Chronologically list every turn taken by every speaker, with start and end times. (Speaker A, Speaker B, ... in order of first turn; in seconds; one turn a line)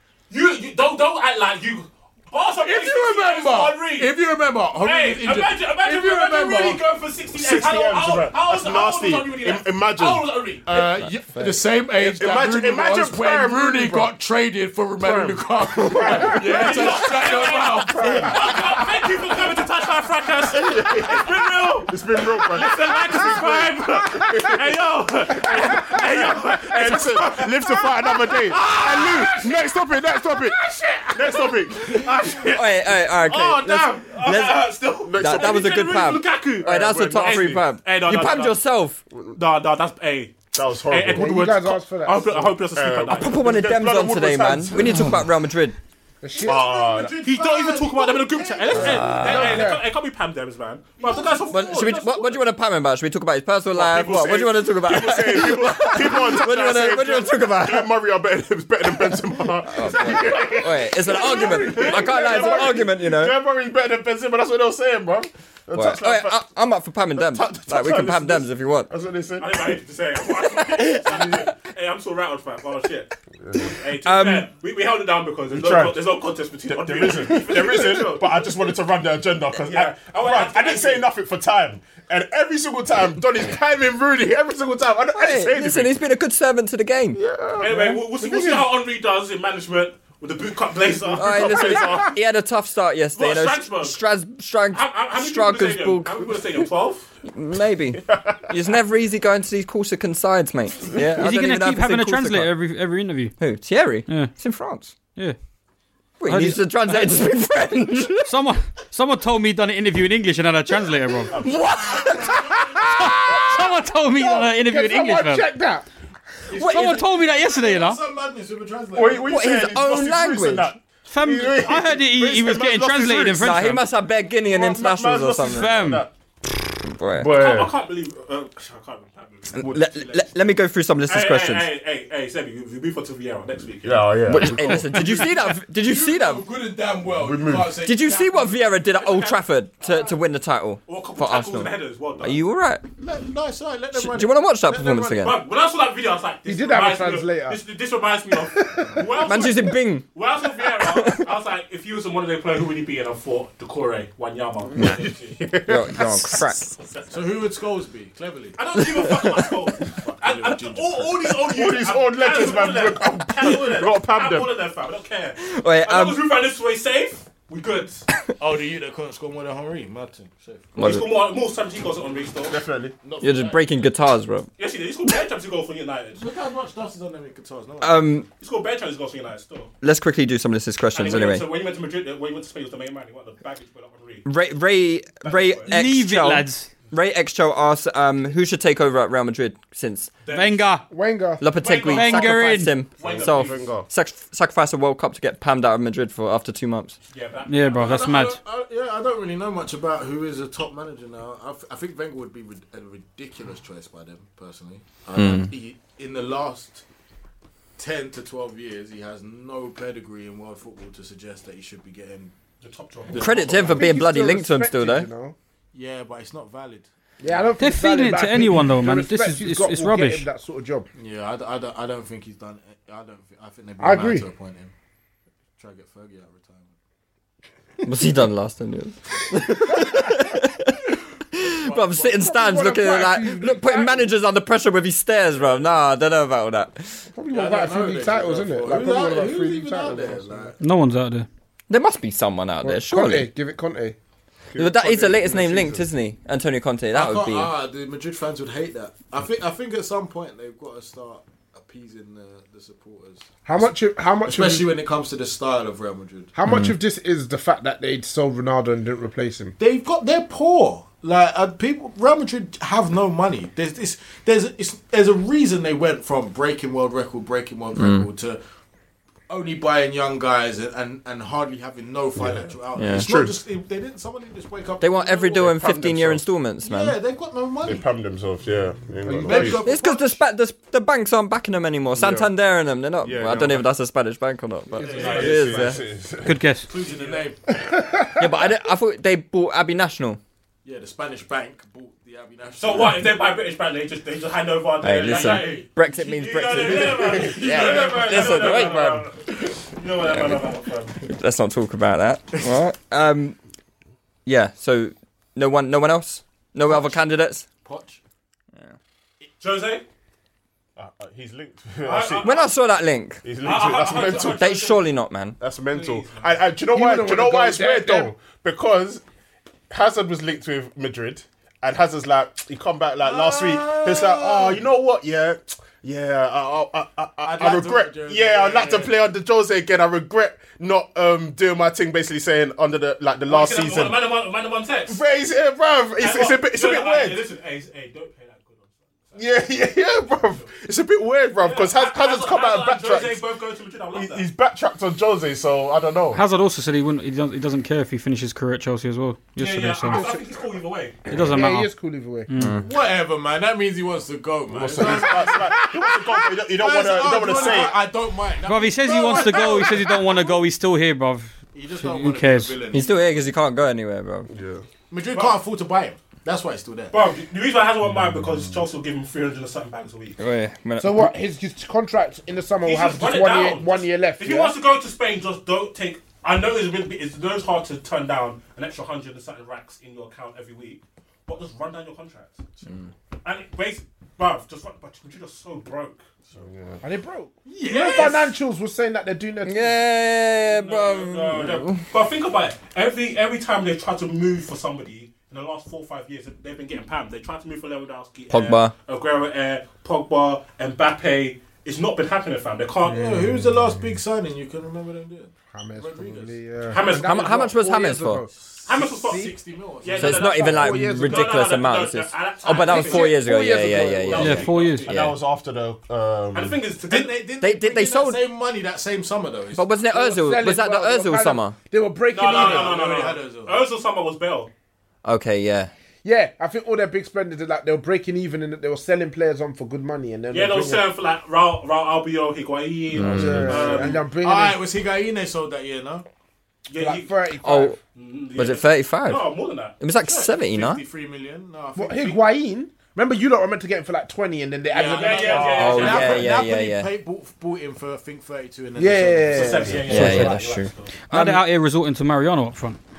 Speaker A: 0.3-4.2
Speaker B: 2.6-6.8
Speaker A: 4.7-10.7
Speaker C: 7.3-10.4
Speaker B: 10.6-18.3
Speaker D: 10.7-11.5
Speaker C: 12.0-14.1
Speaker C: 15.0-18.8
Speaker A: 16.3-29.6
Speaker C: 20.5-24.7
Speaker C: 25.3-30.6
Speaker A: 30.6-38.6
Speaker C: 31.1-32.4
Speaker D: 32.4-39.0
Speaker C: 35.0-35.8
Speaker C: 36.6-37.7
Speaker A: 39.4-43.4
Speaker C: 40.5-41.5
Speaker E: 41.1-42.4
Speaker C: 42.2-45.1
Speaker D: 43.1-45.8
Speaker E: 46.2-46.7
Speaker C: 46.4-47.2
Speaker B: 46.4-49.4
Speaker A: 47.2-52.4
Speaker D: 48.8-49.7
Speaker E: 48.9-49.8
Speaker B: 51.0-51.9
Speaker D: 51.4-58.0
Speaker C: 53.7-66.4
Speaker D: 58.9-63.4
Speaker A: 59.9-62.8
Speaker D: 65.7-68.9
Speaker C: 67.1-69.8
Speaker A: 69.4-78.5
Speaker D: 70.6-71.4
Speaker C: 73.4-73.8
Speaker D: 74.0-74.5
Speaker C: 75.5-85.9
Speaker A: 79.6-81.0
Speaker D: 85.1-87.2
Speaker C: 87.1-88.7
Speaker A: 87.6-92.1
Speaker C: 91.0-92.2
Speaker D: 91.2-96.4
Speaker A: 93.1-94.0
Speaker A: 94.7-97.1
Speaker D: 97.2-102.5
Speaker C: 98.0-98.4
Speaker F: 101.2-103.3
Speaker D: 103.4-104.9
Speaker F: 104.1-104.3
Speaker D: 106.2-108.3
Speaker F: 106.2-107.1
Speaker F: 108.2-111.3
Speaker D: 111.4-112.3
Speaker B: 111.7-112.9
Speaker E: 112.6-115.9
Speaker F: 113.0-115.5
Speaker B: 116.5-119.3
Speaker D: 116.5-117.0
Speaker F: 116.6-118.0
Speaker C: 118.9-123.7
Speaker D: 119.2-120.7
Speaker F: 121.1-123.8
Speaker D: 123.4-125.9
Speaker C: 124.4-126.1
Speaker F: 125.4-126.0
Speaker D: 126.8-127.3
Speaker C: 127.2-127.7
Speaker A: 127.2-130.2
Speaker D: 129.5-131.7
Speaker C: 129.6-129.9
Speaker A: 131.1-134.1
Speaker C: 133.8-135.1
Speaker D: 134.3-136.5
Speaker B: 135.0-138.8
Speaker C: 137.1-137.8
Speaker D: 137.8-142.8
Speaker A: 138.9-140.1
Speaker A: 140.8-142.4
Speaker B: 143.0-145.3
Speaker D: 143.9-145.4
Speaker A: 145.2-155.4
Speaker E: 146.4-147.6
Speaker D: 149.1-151.3
Speaker C: 154.8-156.4
Speaker D: 155.7-156.8
Speaker B: 157.1-158.6
Speaker A: 158.6-168.1
Speaker B: 160.1-161.3
Speaker C: 161.4-164.5
Speaker D: 165.4-166.2
Speaker B: 168.4-171.0
Speaker D: 170.8-171.1
Speaker A: 170.8-172.6
Speaker C: 172.5-172.9
Speaker B: 173.0-173.8
Speaker D: 173.2-174.5
Speaker A: 174.6-176.3
Speaker B: 176.1-178.2
Speaker D: 177.8-178.3
Speaker A: 178.4-179.7
Speaker D: 179.8-181.5
Speaker A: 180.9-184.2
Speaker D: 184.2-190.1
Speaker A: 185.2-185.8
Speaker F: 185.7-186.7
Speaker A: 190.2-190.8
Speaker F: 190.3-190.9
Speaker E: 190.9-191.4
Speaker D: 191.4-197.0
Speaker A: 191.6-193.7
Speaker F: 191.9-192.8
Speaker C: 193.0-193.9
Speaker A: 197.1-198.0
Speaker F: 197.5-198.4
Speaker B: 197.8-206.8
Speaker D: 205.1-205.5
Speaker B: 207.8-212.3
Speaker A: 212.6-213.3
Speaker B: 213.1-214.0
Speaker D: 213.2-215.1
Speaker E: 213.5-215.3
Speaker B: 215.7-217.5
Speaker E: 217.2-220.9
Speaker F: 217.6-220.2
Speaker B: 220.9-224.7
Speaker E: 223.8-224.2
Speaker B: 225.6-226.8
Speaker D: 227.8-237.1
Speaker B: 231.4-232.3
Speaker E: 232.2-234.1
Speaker E: 237.1-240.5
Speaker B: 237.3-240.6
Speaker F: 240.6-241.3
Speaker D: 241.7-243.3
Speaker E: 242.6-243.9
Speaker C: 244.5-245.8
Speaker D: 244.6-247.5
Speaker B: 246.9-256.3
Speaker E: 253.4-254.7
Speaker E: 256.3-259.5
Speaker B: 259.6-268.4
Speaker D: 267.8-268.1
Speaker B: 269.3-275.6
Speaker C: 272.2-273.4
Speaker D: 272.8-273.1
Speaker D: 274.8-277.0
Speaker C: 275.4-276.2
Speaker B: 276.6-277.9
Speaker C: 277.6-279.7
Speaker E: 279.0-279.6
Speaker B: 279.2-280.2
Speaker D: 279.6-285.8
Speaker C: 281.9-282.3
Speaker C: 283.0-283.7
Speaker B: 284.8-285.7
Speaker C: 284.8-286.5
Speaker A: 284.9-285.6
Speaker F: 286.2-286.7
Speaker B: 286.6-287.4
Speaker A: 286.9-287.2
Speaker E: 287.6-288.2
Speaker D: 288.2-290.2
Speaker B: 290.6-293.2
Speaker A: 292.6-301.0
Speaker D: 294.8-299.1
Speaker B: 295.0-295.7
Speaker B: 296.8-298.6
Speaker C: 297.3-297.7
Speaker C: 298.2-299.0
Speaker D: 300.0-303.4
Speaker D: 304.2-307.5
Speaker B: 306.6-307.0
Speaker B: 307.6-308.0
Speaker A: 309.4-309.8
Speaker C: 310.8-312.4
Speaker A: 311.8-312.5
Speaker D: 312.2-313.2
Speaker C: 313.2-314.6
Speaker A: 313.4-314.8
Speaker D: 314.1-315.4
Speaker C: 315.4-319.0
Speaker A: 315.7-316.3
Speaker E: 316.7-318.1
Speaker C: 319.7-334.0
Speaker B: 323.0-324.6
Speaker B: 327.2-328.9
Speaker A: 333.3-335.0
Speaker C: 334.9-337.2
Speaker A: 336.0-339.2
Speaker C: 339.1-343.3
Speaker A: 341.4-344.3
Speaker C: 343.9-346.2
Speaker F: 346.1-350.1
Speaker A: 349.4-351.0
Speaker E: 349.9-350.2
Speaker F: 351.1-351.7
Speaker E: 351.2-352.3
Speaker F: 352.3-352.6
Speaker B: 352.5-355.6
Speaker C: 354.5-357.8
Speaker E: 354.8-356.2
Speaker B: 356.5-360.4
Speaker F: 358.4-362.6
Speaker A: 359.1-359.5
Speaker B: 361.5-363.2
Speaker D: 362.7-364.3
Speaker C: 364.3-364.6
Speaker B: 364.9-367.0
Speaker A: 365.1-365.4
Speaker A: 366.9-370.2
Speaker D: 370.2-371.1
Speaker E: 370.8-374.6
Speaker A: 372.6-382.4
Speaker A: 383.2-386.0
Speaker C: 386.3-386.8
Speaker E: 386.8-389.8
Speaker B: 387.4-388.3
Speaker A: 387.7-388.3
Speaker D: 389.4-391.8
Speaker A: 390.4-403.0
Speaker D: 398.3-398.7
Speaker B: 402.8-406.4
Speaker E: 403.0-403.5
Speaker E: 405.5-408.3
Speaker A: 406.7-407.5
Speaker D: 406.9-408.3
Speaker B: 408.6-410.4
Speaker A: 408.6-413.1
Speaker D: 410.0-415.2
Speaker E: 410.2-411.4
Speaker E: 412.6-414.3
Speaker A: 414.1-415.0
Speaker F: 414.1-414.9
Speaker C: 414.9-416.6
Speaker A: 416.3-417.1
Speaker B: 416.9-419.7
Speaker D: 417.4-418.3
Speaker D: 419.5-421.6
Speaker E: 419.9-422.7
Speaker A: 422.1-424.5
Speaker B: 422.1-423.6
Speaker D: 425.0-425.7
Speaker E: 426.0-430.9
Speaker A: 430.3-434.0
Speaker D: 432.9-433.6
Speaker C: 433.0-433.9
Speaker E: 433.1-434.6
Speaker B: 433.8-436.0
Speaker A: 436.7-437.1
Speaker E: 436.8-437.7
Speaker D: 437.4-437.8
Speaker A: 437.9-439.8
Speaker D: 438.3-439.3
Speaker D: 439.8-440.8
Speaker B: 439.9-442.3
Speaker E: 441.8-445.8
Speaker B: 444.6-450.0
Speaker A: 444.7-446.3
Speaker C: 445.3-446.2
Speaker D: 445.5-446.9
Speaker E: 448.8-449.8
Speaker A: 449.3-450.9
Speaker D: 449.9-451.4
Speaker F: 449.9-450.4
Speaker F: 451.1-452.8